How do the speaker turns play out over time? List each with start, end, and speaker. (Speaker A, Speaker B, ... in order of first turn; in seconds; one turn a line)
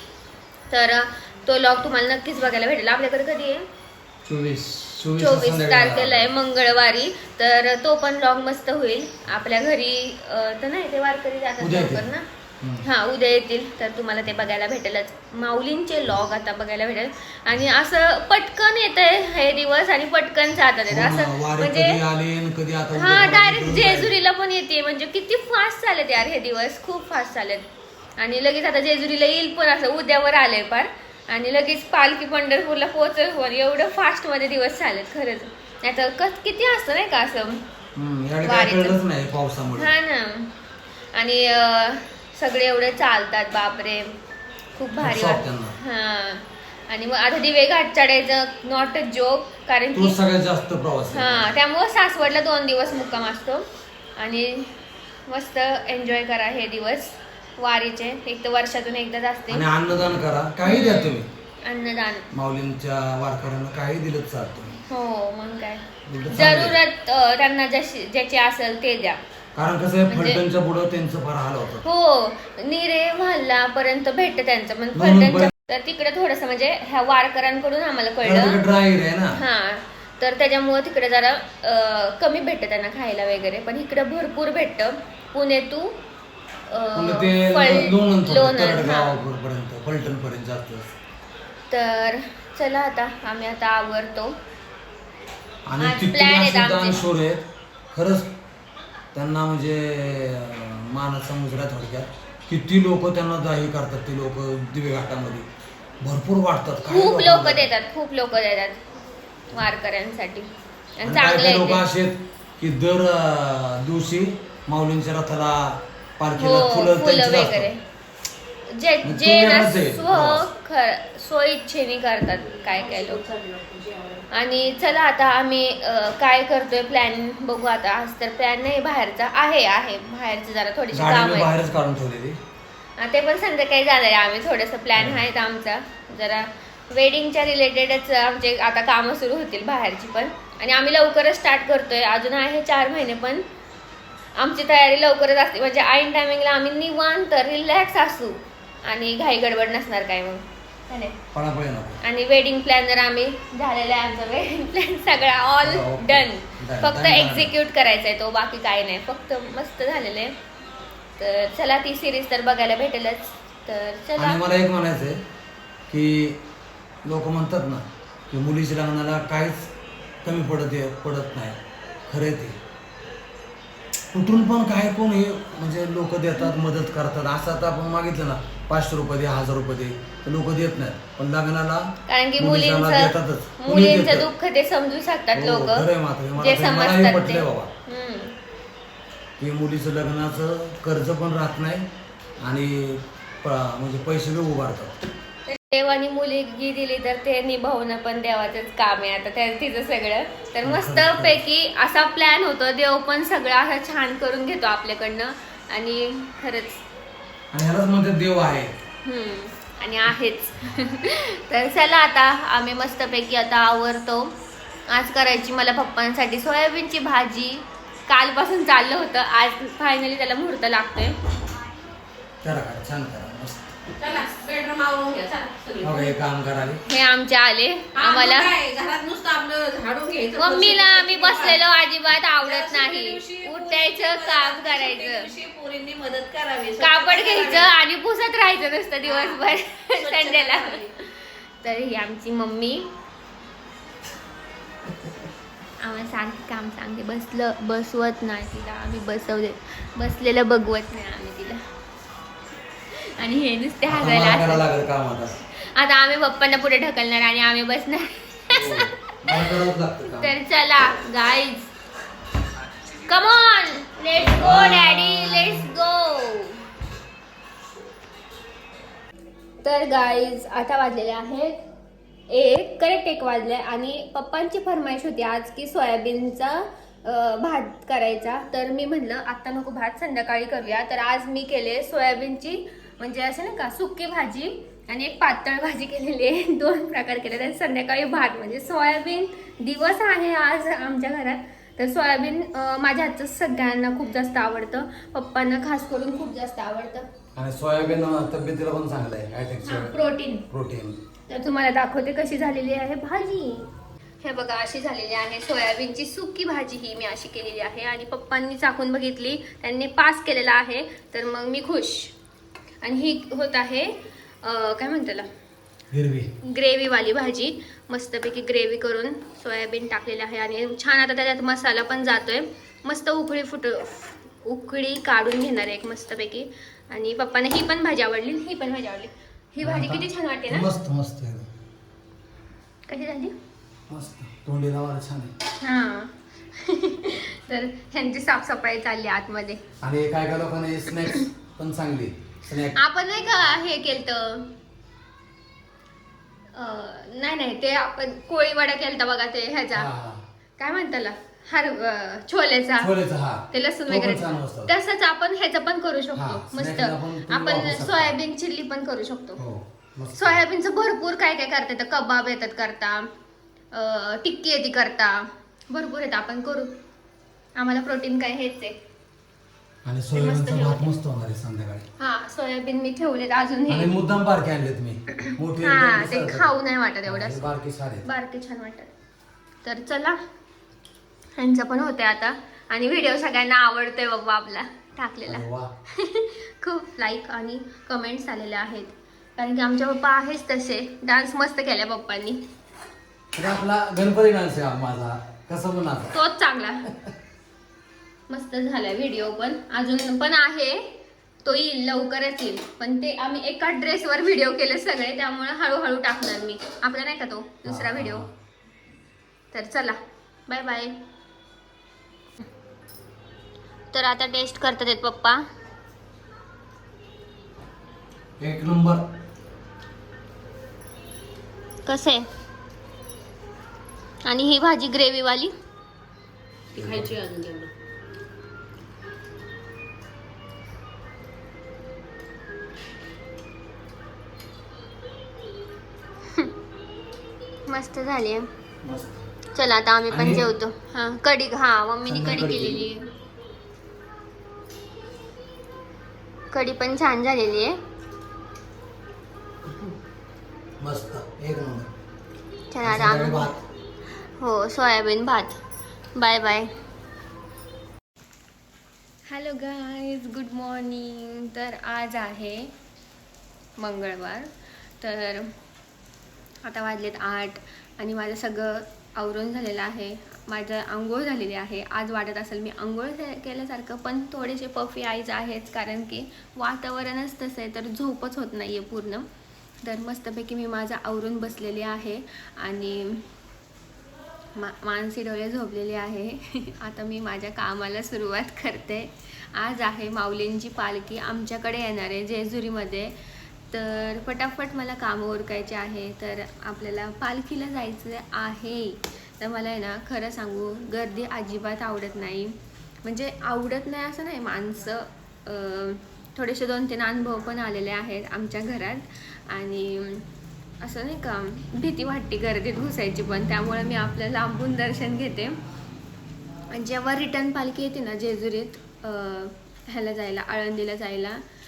Speaker A: 0.7-3.6
Speaker B: 4.2-6.3
Speaker A: 5.2-12.2
Speaker B: 11.6-12.1
Speaker A: 12.8-22.0
Speaker B: 20.9-24.1
Speaker A: 22.9-27.6
Speaker A: 28.2-37.6
Speaker B: 37.9-39.9
Speaker A: 38.4-39.0
Speaker A: 39.8-40.5
Speaker A: 41.1-44.1
Speaker A: 44.8-50.1
Speaker B: 45.0-45.7
Speaker B: 49.9-51.5
Speaker A: 51.1-53.6
Speaker A: 54.2-54.8
Speaker A: 55.3-59.6
Speaker B: 59.5-61.3
Speaker A: 60.6-62.3
Speaker B: 62.3-64.8
Speaker A: 64.9-69.2
Speaker B: 66.0-66.8
Speaker B: 69.5-71.8
Speaker A: 70.1-70.4
Speaker A: 71.8-78.6
Speaker B: 74.9-75.5
Speaker B: 78.2-79.4
Speaker A: 79.3-86.0
Speaker A: 86.7-89.2
Speaker B: 86.9-90.9
Speaker A: 91.7-94.4
Speaker B: 95.7-98.3
Speaker A: 95.8-97.0
Speaker B: 99.1-105.5
Speaker B: 106.0-107.7
Speaker A: 106.9-108.8
Speaker A: 109.5-111.8
Speaker B: 111.0-117.7
Speaker A: 116.3-117.8
Speaker A: 118.7-123.2
Speaker B: 119.0-120.5
Speaker C: 122.4-124.3
Speaker A: 124.3-131.5
Speaker B: 130.9-132.4
Speaker A: 133.0-143.4
Speaker B: 135.0-135.2
Speaker A: 144.4-151.2
Speaker B: 151.3-152.0
Speaker A: 152.0-160.3
Speaker B: 155.6-157.5
Speaker A: 161.2-164.4
Speaker B: 164.2-165.2
Speaker B: 165.9-166.4
Speaker B: 167.0-169.7
Speaker B: 170.2-172.6
Speaker B: 174.1-184.3
Speaker A: 182.1-188.3
Speaker B: 185.3-187.7
Speaker B: 189.4-191.9
Speaker B: 192.4-194.9
Speaker A: 195.5-206.8
Speaker B: 200.6-201.4
Speaker B: 207.5-208.7
Speaker A: 209.0-214.3
Speaker A: 214.9-221.2
Speaker B: 222.4-223.7
Speaker C: 224.0-226.1
Speaker B: 225.8-226.8
Speaker A: 226.8-228.5
Speaker C: 227.9-231.6
Speaker A: 230.3-235.3
Speaker C: 232.4-237.7
Speaker A: 236.8-241.1
Speaker C: 239.0-240.9
Speaker A: 241.6-242.9
Speaker A: 245.8-251.6
Speaker A: 252.9-254.6
Speaker B: 253.9-255.3
Speaker A: 255.6-259.5
Speaker B: 258.5-260.3
Speaker A: 260.1-261.7
Speaker A: 263.0-266.6
Speaker B: 264.2-265.6
Speaker A: 269.6-271.6
Speaker A: 272.3-297.1
Speaker B: 297.3-300.0
Speaker A: 299.6-300.5
Speaker B: 300.5-301.0
Speaker A: 301.3-303.7
Speaker A: 304.2-312.1
Speaker A: 312.8-315.3
Speaker B: 315.9-316.3
Speaker A: 316.4-330.7
Speaker B: 329.6-331.5
Speaker A: 332.9-333.3
Speaker B: 333.9-335.3
Speaker A: 335.6-339.6
Speaker B: 339.8-342.8
Speaker A: 342.7-344.5
Speaker A: 346.5-349.9
Speaker B: 349.7-350.2
Speaker A: 350.6-352.9
Speaker B: 352.8-354.7
Speaker A: 353.5-359.4
Speaker B: 356.1-358.2
Speaker B: 359.4-360.4
Speaker A: 360.1-363.1
Speaker A: 363.7-366.8
Speaker A: 367.6-368.8
Speaker B: 369.8-371.9
Speaker A: 370.1-370.9
Speaker A: 372.0-373.9
Speaker B: 373.7-376.5
Speaker A: 375.2-377.5
Speaker B: 377.0-378.1
Speaker A: 378.0-378.9
Speaker A: 379.6-380.2
Speaker A: 381.4-392.4
Speaker B: 385.3-385.7
Speaker B: 393.3-396.1
Speaker A: 396.1-396.9
Speaker A: 398.3-408.2
Speaker B: 407.6-408.3
Speaker A: 409.5-411.0
Speaker A: 413.9-415.4
Speaker B: 418.4-419.0
Speaker A: 421.9-422.3
Speaker A: 424.2-425.5
Speaker C: 426.7-427.7
Speaker B: 426.8-427.1
Speaker A: 437.7-438.5
Speaker B: 438.8-439.2
Speaker A: 439.5-443.1
Speaker B: 440.1-440.4
Speaker B: 442.1-442.9
Speaker A: 446.5-447.8
Speaker B: 449.6-449.9
Speaker B: 450.8-451.9
Speaker A: 452.7-453.5
Speaker B: 452.8-453.6
Speaker A: 454.4-455.6
Speaker A: 456.1-456.7
Speaker A: 459.3-462.7
Speaker A: 463.8-464.5
Speaker A: 465.0-465.5
Speaker A: 466.6-479.2
Speaker A: 479.8-483.2
Speaker A: 484.6-493.1
Speaker A: 493.7-510.2
Speaker A: 510.8-515.6
Speaker A: 516.7-521.4